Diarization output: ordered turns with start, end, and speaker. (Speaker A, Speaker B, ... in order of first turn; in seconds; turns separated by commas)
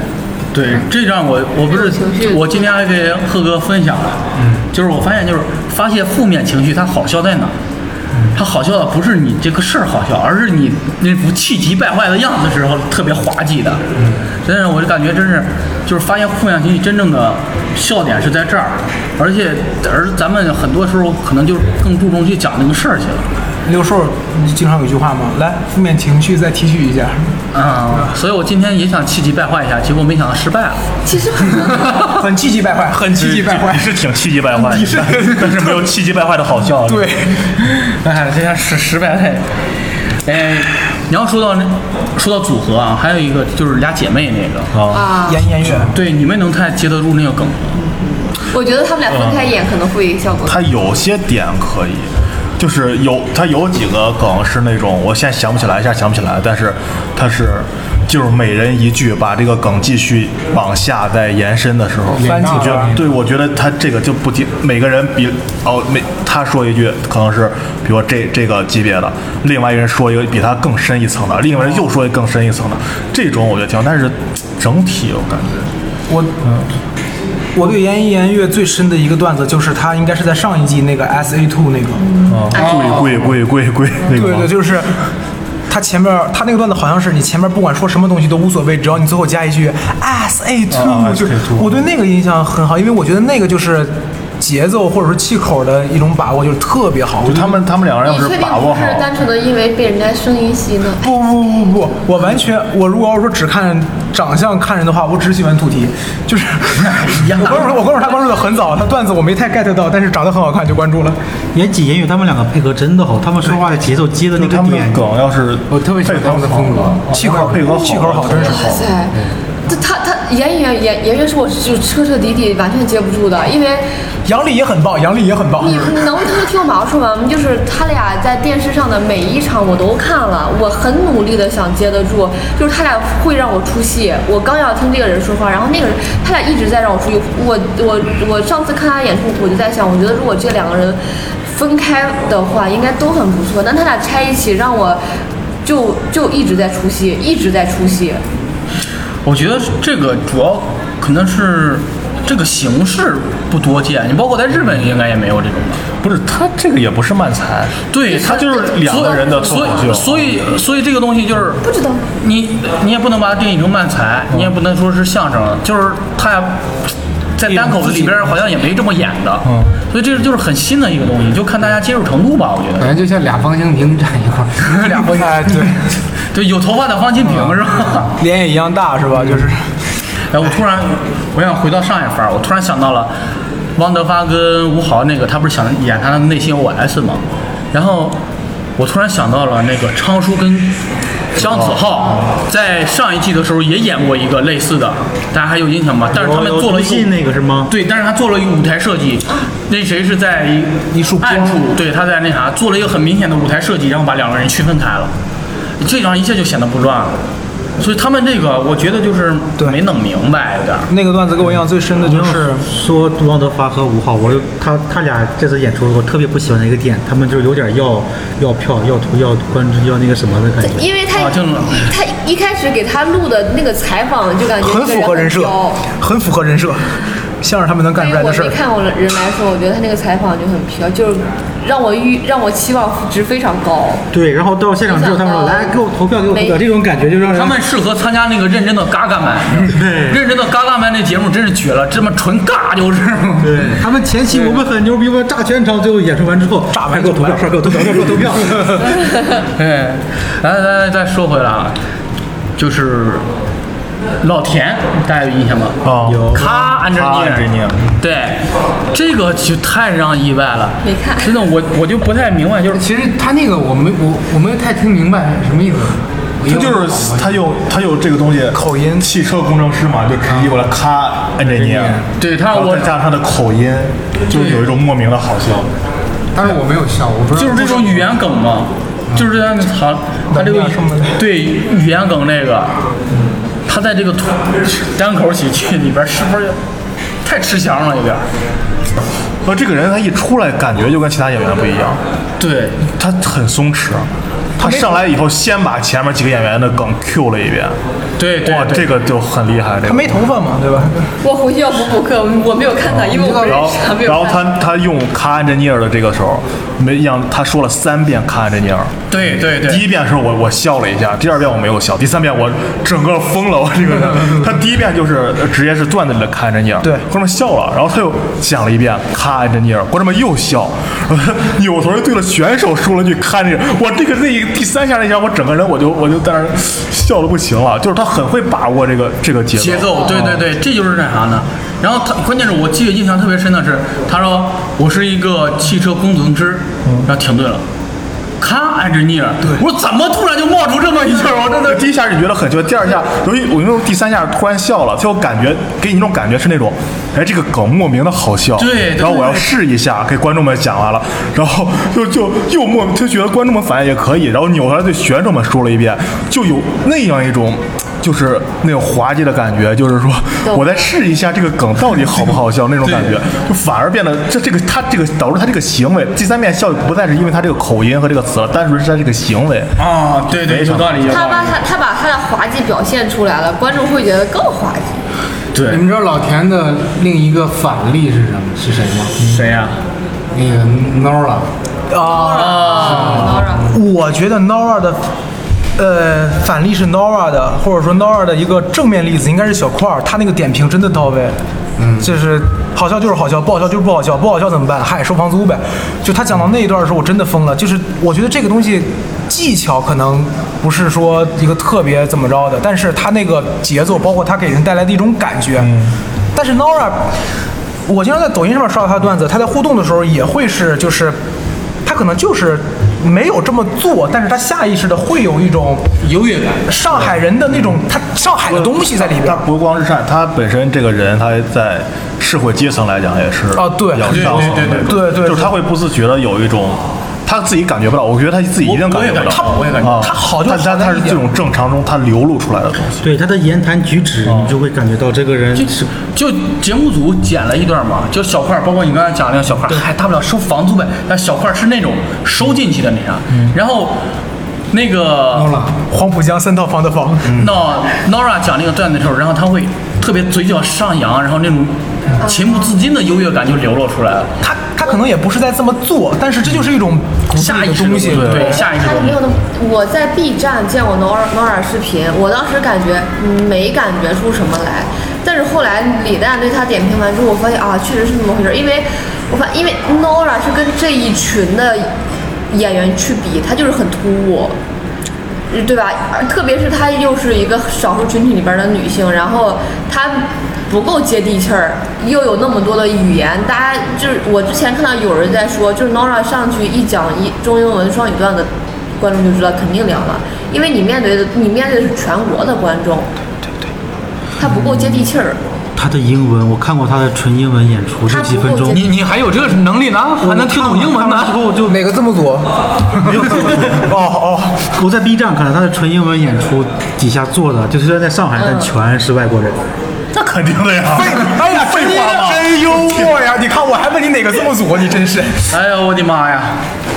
Speaker A: 0.5-7.5, Speaker B: 1.7-2.7, Speaker A: 8.3-13.8, Speaker A: 14.4-23.3, Speaker C: 23.6-27.3, Speaker A: 27.5-30.8, Speaker B: 31.1-31.9, Speaker C: 31.9-34.0, Speaker D: 33.1-37.1, Speaker C: 34.5-35.8, Speaker C: 36.9-37.5, Speaker A: 37.8-39.4, Speaker A: 40.2-44.7, Speaker D: 44.7-45.1, Speaker B: 44.9-45.4, Speaker C: 45.2-45.9, Speaker A: 45.9-47.8, Speaker B: 47.7-50.6, Speaker D: 49.1-49.5, Speaker D: 50.5-75.7, Speaker E: 62.1-63.0, Speaker C: 62.2-63.0, Speaker C: 76.1-76.4, Speaker C: 77.5-82.0, Speaker B: 82.0-83.0, Speaker D: 82.3-84.5, Speaker A: 82.5-83.2, Speaker C: 84.1-85.0, Speaker C: 85.7-97.6, Speaker D: 90.7-91.8, Speaker D: 97.2-99.1, Speaker B: 98.0-101.0, Speaker C: 101.0-111.2, Speaker F: 111.5-115.1, Speaker D: 114.3-118.9, Speaker E: 115.7-117.6, Speaker C: 117.1-118.7, Speaker B: 118.3-119.1, Speaker B: 119.7-123.8, Speaker C: 124.2-125.9, Speaker B: 125.6-145.0, Speaker B: 145.6-148.2, Speaker A: 149.2-155.8, Speaker D: 156.0-160.4, Speaker A: 157.9-161.6, Speaker B: 158.1-159.9, Speaker B: 161.6-162.0, Speaker A: 162.2-166.7, Speaker A: 167.4-172.9, Speaker C: 167.5-168.3, Speaker E: 172.8-175.7, Speaker C: 174.8-175.8, Speaker A: 176.3-178.2, Speaker C: 178.2-179.7, Speaker A: 180.3-183.1, Speaker A: 183.8-188.2, Speaker A: 188.8-190.8, Speaker A: 191.3-197.1, Speaker D: 191.4-192.3, Speaker F: 196.1-197.7, Speaker A: 197.7-205.1, Speaker C: 200.9-201.6, Speaker A: 205.8-207.2, Speaker A: 207.8-210.9, Speaker C: 210.9-212.7, Speaker F: 212.0-220.9, Speaker B: 220.6-225.8, Speaker A: 221.1-221.9, Speaker C: 224.6-228.6, Speaker B: 227.9-234.1, Speaker F: 234.1-237.6, Speaker B: 234.8-236.6, Speaker A: 237.2-244.6, Speaker F: 239.7-240.2, Speaker F: 243.4-248.8, Speaker C: 246.7-248.2, Speaker A: 249.6-251.8, Speaker A: 252.6-253.2, Speaker A: 254.2-255.8, Speaker D: 255.8-257.8, Speaker F: 256.0-256.4, Speaker A: 256.3-262.8, Speaker B: 260.8-261.3, Speaker E: 262.7-267.4, Speaker D: 266.4-275.7, Speaker C: 268.5-269.1, Speaker F: 271.5-272.0, Speaker A: 272.2-273.0, Speaker E: 276.3-278.1, Speaker A: 277.3-282.7, Speaker C: 280.3-281.2, Speaker A: 283.7-286.6, Speaker A: 287.2-288.2, Speaker D: 289.4-292.0, Speaker A: 292.4-292.8, Speaker D: 292.9-297.8, Speaker C: 294.6-295.0, Speaker A: 298.2-298.9, Speaker D: 298.4-300.2, Speaker C: 299.9-301.1, Speaker B: 301.2-304.5, Speaker D: 302.9-308.9, Speaker E: 303.1-303.6, Speaker A: 309.1-309.9, Speaker D: 309.6-330.4, Speaker A: 329.5-337.6, Speaker A: 338.4-341.9, Speaker D: 341.5-371.4, Speaker A: 348.6-349.5, Speaker B: 360.4-360.7, Speaker A: 362.8-363.2, Speaker A: 369.8-371.6, Speaker B: 371.1-375.0, Speaker A: 375.5-375.8, Speaker E: 375.7-379.1, Speaker A: 379.2-379.8, Speaker E: 380.3-381.5, Speaker C: 381.9-382.7, Speaker B: 382.0-383.8, Speaker A: 382.2-383.5, Speaker E: 382.9-383.5, Speaker C: 383.7-385.0, Speaker C: 385.8-391.4, Speaker E: 391.8-392.1, Speaker C: 392.0-405.7, Speaker D: 405.6-405.9, Speaker C: 406.3-407.1, Speaker C: 407.9-411.2, Speaker C: 411.8-415.9, Speaker A: 416.0-416.6, Speaker C: 416.7-419.4, Speaker D: 418.5-433.0, Speaker C: 423.5-425.6, Speaker A: 424.1-425.0, Speaker A: 428.6-430.1, Speaker C: 429.3-431.2, Speaker F: 433.0-435.9, Speaker D: 434.2-434.6, Speaker A: 435.5-444.0, Speaker A: 444.7-445.6, Speaker E: 445.3-445.7, Speaker C: 445.9-447.4, Speaker A: 447.3-454.4, Speaker B: 452.2-452.7, Speaker C: 454.4-458.6, Speaker A: 457.3-459.2, Speaker D: 458.1-458.5, Speaker B: 458.5-471.9, Speaker B: 472.5-474.5, Speaker B: 475.5-493.1, Speaker B: 494.4-495.4, Speaker F: 495.8-498.8, Speaker B: 498.1-499.0, Speaker A: 498.7-501.4, Speaker F: 500.2-501.9, Speaker C: 501.7-504.6, Speaker F: 503.1-504.0, Speaker F: 504.7-509.6, Speaker B: 508.4-508.7, Speaker D: 510.1-513.2, Speaker C: 510.9-515.5, Speaker A: 515.5-516.6